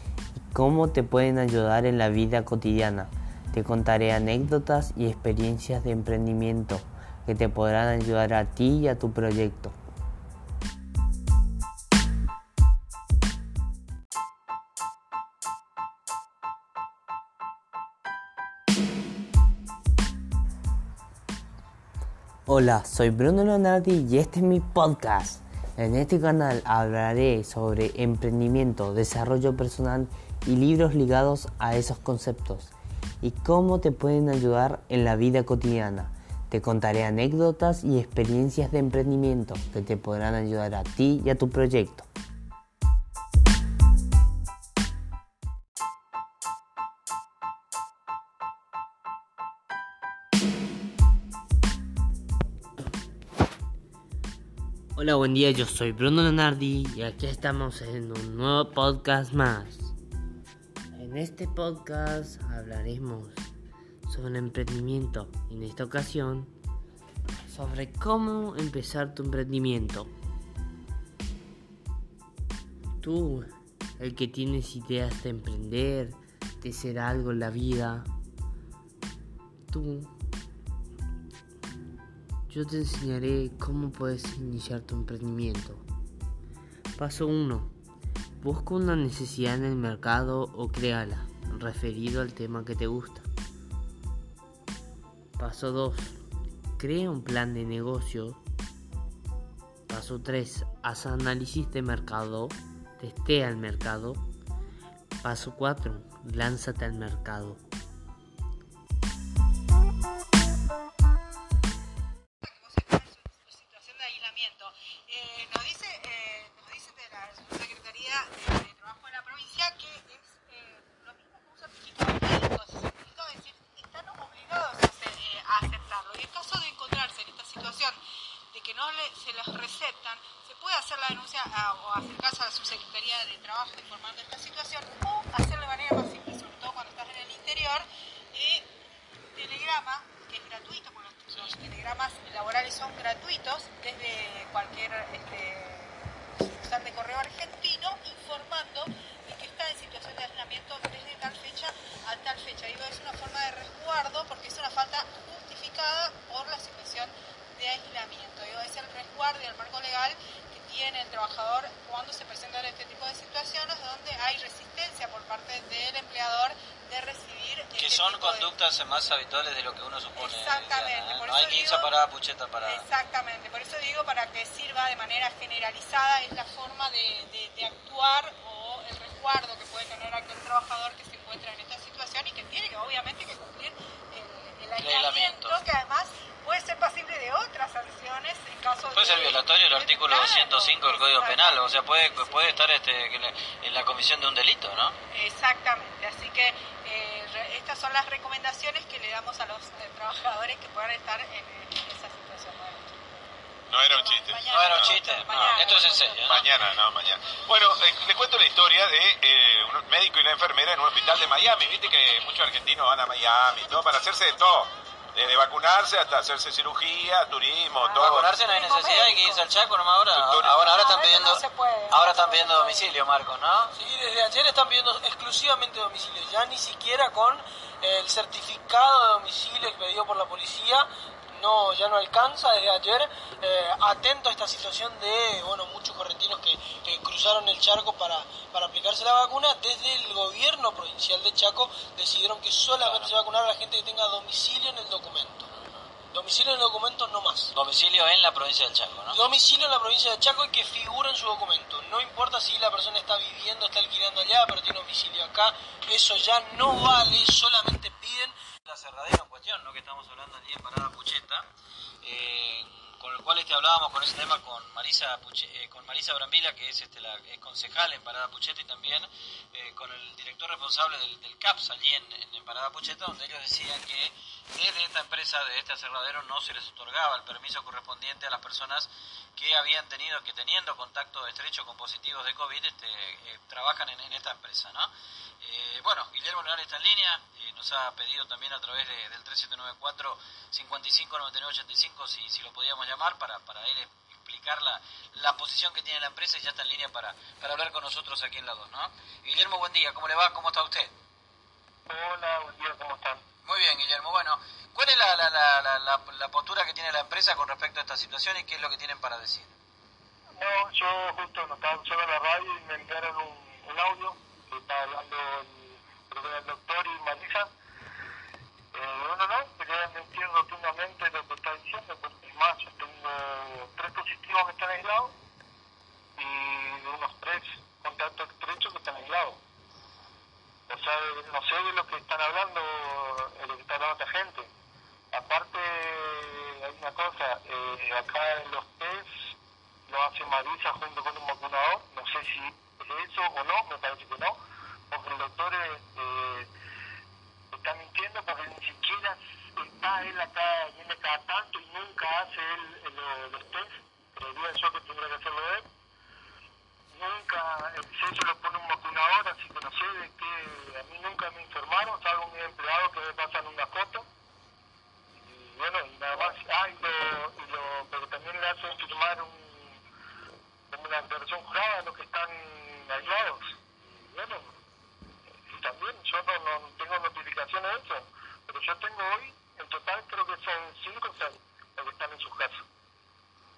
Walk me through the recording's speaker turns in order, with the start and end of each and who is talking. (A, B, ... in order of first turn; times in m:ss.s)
0:00.4-0:09.8 A
0:22.4-0:42.1 A
0:55.0-0:59.9 A
1:00.9-1:03.5 A
1:04.0-1:06.5 A
1:07.5-1:10.1 A
1:13.0-1:18.1 A
1:19.7-1:20.1 A
1:22.5-1:25.9 A
1:27.0-1:27.7 A
1:28.4-1:33.3 A
1:35.4-1:36.2 A
1:36.8-1:38.4 A
1:39.9-1:44.2 A
1:45.2-1:47.6 A
1:52.4-2:48.5 B
2:21.3-2:21.6 C
2:47.8-2:52.9 C
2:50.2-2:51.9 B
2:52.6-3:12.6 B
3:04.8-3:05.6 C
3:08.9-3:15.0 C
3:15.1-3:26.7 B
3:23.7-3:38.4 D
3:24.5-3:26.4 C
3:37.8-3:39.4 B
3:38.0-3:43.7 C
3:40.1-3:41.4 D
3:40.6-3:42.9 B
3:43.7-4:05.5 E
4:02.8-4:03.1 C
4:05.5-4:05.9 C
4:06.1-4:07.5 E
4:07.5-4:09.2 C
4:09.1-4:18.4 E
4:18.6-4:21.5 C
4:22.0-5:00.9 C
5:01.9-5:03.2 F
5:03.4-5:09.5 C
5:10.4-5:17.5 F
5:18.7-5:25.1 F
5:26.2-5:29.4 F
5:30.7-5:34.5 F
5:35.1-5:39.1 F
5:39.9-5:44.4 F
5:44.9-5:46.5 F
5:47.5-5:55.6 F
5:56.9-6:04.0 F
6:05.2-6:09.8 F
6:10.7-6:14.5 F
6:15.5-6:22.6 F